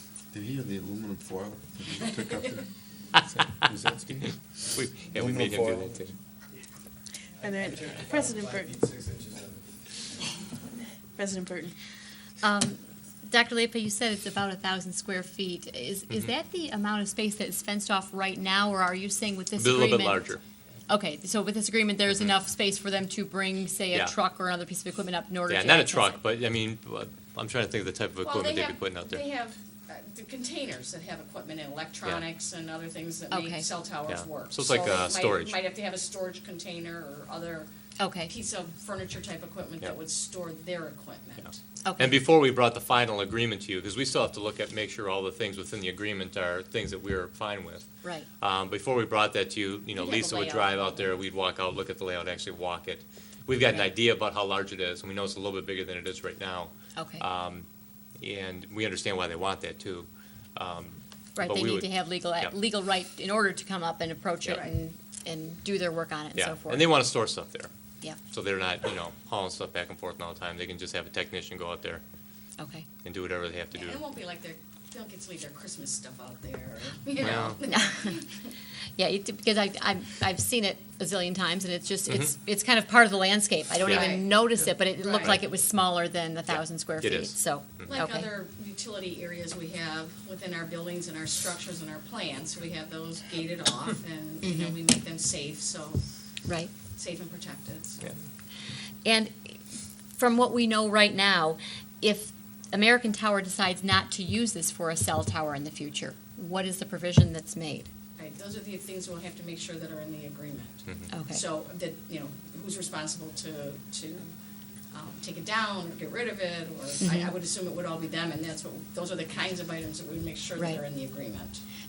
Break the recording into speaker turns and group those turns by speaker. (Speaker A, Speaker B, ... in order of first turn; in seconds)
Speaker A: 0.3-2.7, 3.2-4.3, 5.1-6.0
Speaker B: 2.0-2.5, 28.2-37.7, 38.2-41.6, 50.0-51.1, 73.7-78.5, 83.8-85.5, 87.9-96.0, 96.9-98.0, 108.2-114.3, 114.9-121.6
Speaker C: 4.7-6.1, 19.6-20.4, 25.5-29.2, 34.1-35.6, 42.0-47.8, 48.4-57.6, 58.2-62.5, 66.3-67.7, 68.3-72.0, 73.0-74.0, 77.2-77.6, 82.1-82.3, 83.8-84.2, 86.5-88.0, 110.9-111.1
Speaker D: 7.4-8.8, 11.2-11.7
Speaker E: 12.4-20.2, 20.9-26.2, 33.3-33.6, 38.0-38.3, 41.8-42.2, 57.0-57.2, 61.4-67.0, 72.6-72.9, 77.7-78.0, 79.0-88.3, 94.4-94.7, 96.5-96.7, 99.0-99.5, 100.1-107.9, 111.1-111.4, 117.0-117.3